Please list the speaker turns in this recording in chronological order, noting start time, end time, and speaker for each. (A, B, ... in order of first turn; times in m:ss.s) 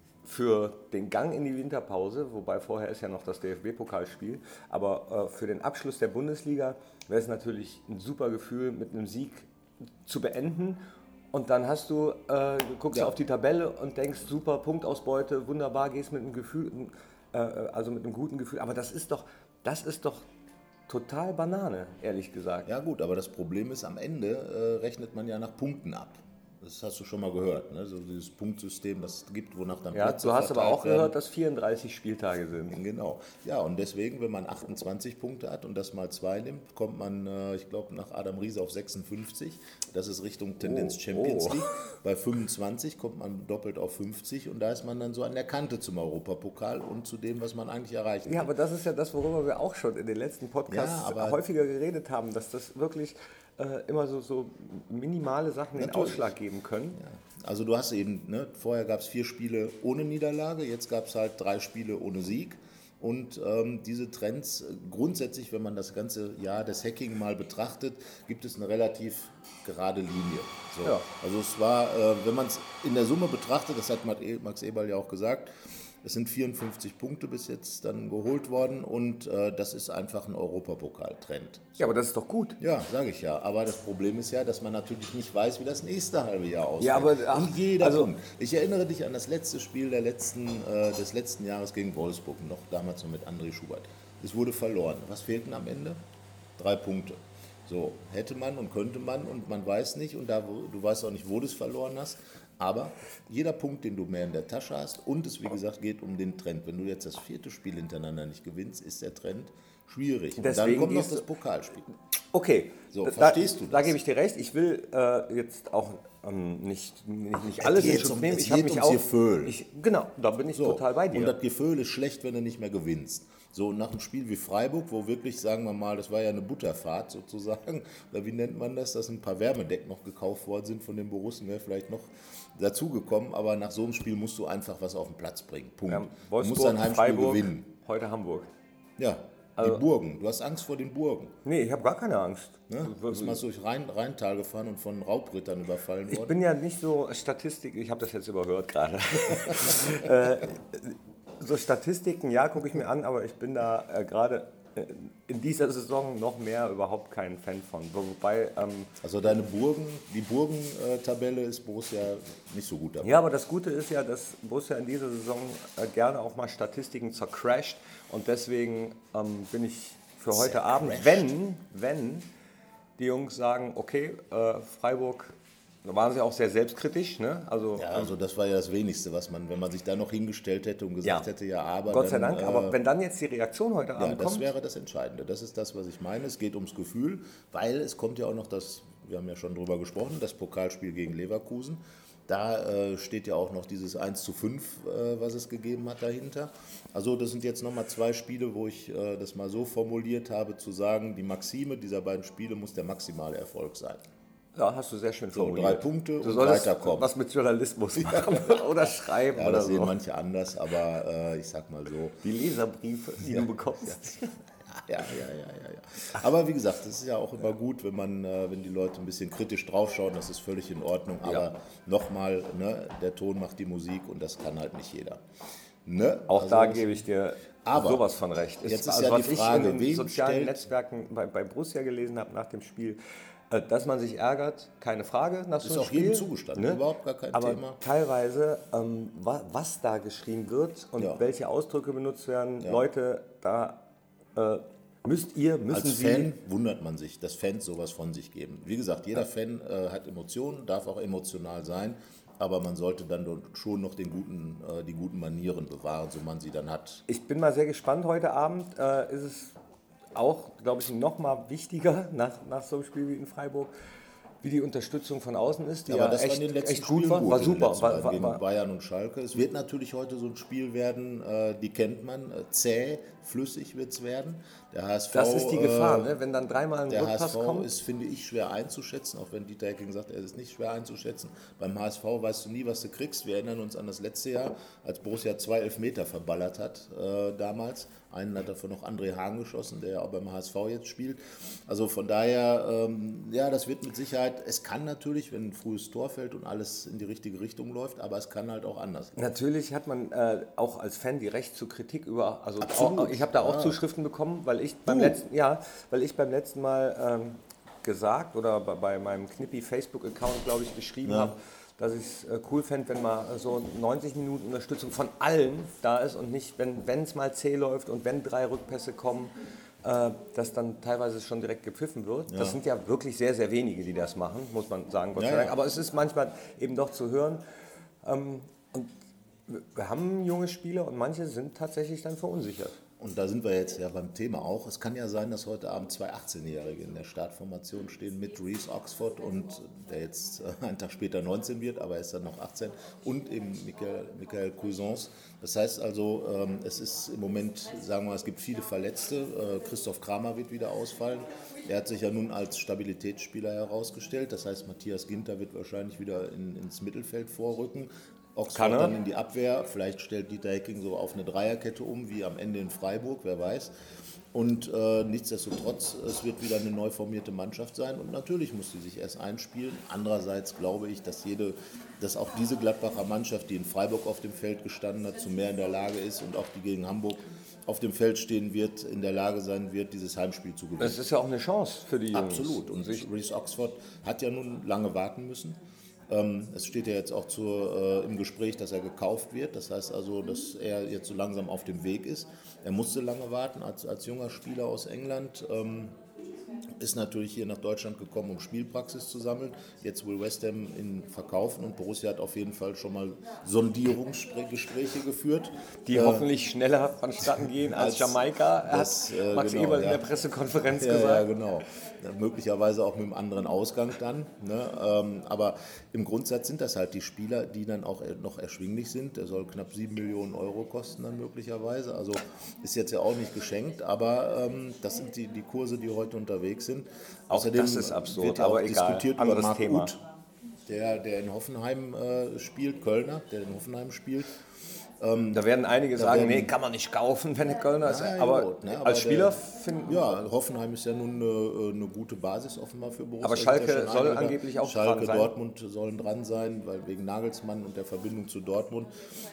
0:00.2-0:09.5 A
0:10.0-0:10.8 A
0:11.3-0:20.2 A
0:20.9-0:22.7 A
0:22.6-0:31.1 B
0:29.9-0:32.8 A
0:32.7-0:48.5 B
0:40.6-0:41.7 A
0:48.2-0:57.0 A
0:50.7-0:51.4 B
0:55.8-0:56.3 B
0:57.0-1:15.5 B
1:16.0-1:22.0 B
1:21.8-1:22.6 A
1:22.6-1:36.0 B
1:26.8-1:28.1 A
1:36.6-1:51.9 B
1:50.4-1:51.3 A
1:52.3-2:01.3 A
1:52.9-1:54.0 B
1:57.6-1:59.6 B
2:00.5-2:17.7 B
2:15.9-2:18.5 A
2:19.0-2:21.3 B
2:19.6-2:19.8 A
2:21.4-2:23.4 A
2:22.7-2:26.4 B
2:26.1-2:38.9 A
2:39.0-2:43.2 B
2:43.0-2:52.3 A
2:50.3-2:51.3 B
2:53.0-2:58.1 A
2:57.8-3:02.8 B
3:01.0-3:01.3 A
3:01.9-3:04.5 A
3:04.0-3:24.0 B
3:24.5-3:30.0 A
3:25.3-3:27.1 B
3:28.0-3:28.4 B
3:29.3-3:32.2 B
3:32.2-3:34.3 A
3:33.3-3:34.0 B
3:34.7-3:45.2 B
3:45.8-3:47.1 B
3:46.3-4:03.8 A
3:47.6-3:48.1 B
3:48.6-3:50.6 B
3:55.6-3:57.8 B
4:01.0-4:01.2 B
4:04.4-4:06.3 A
4:05.7-4:17.0 B
4:17.1-4:19.5 A
4:20.1-4:23.7 A
4:24.4-4:28.4 A
4:25.9-4:36.2 B
4:35.1-4:37.7 A
4:36.9-4:59.2 B
4:59.2-5:27.4 A
5:02.6-5:03.8 B
5:04.8-5:05.2 B
5:11.0-5:11.3 B
5:22.3-5:22.6 B
5:25.1-5:25.6 B
5:28.0-5:28.9 A
5:29.5-5:32.8 A
5:33.0-6:03.7 B
5:58.5-5:58.9 A
6:04.3-6:21.0 B
6:20.8-6:23.0 A
6:22.1-6:35.9 B
6:36.8-6:46.3 B
6:45.9-6:51.3 A
6:47.6-6:50.1 B
6:50.7-7:10.0 B
7:07.3-7:09.9 A
7:10.7-7:14.3 B
7:15.0-7:16.5 B
7:15.3-7:20.2 A
7:17.8-7:28.9 B
7:23.2-7:25.3 A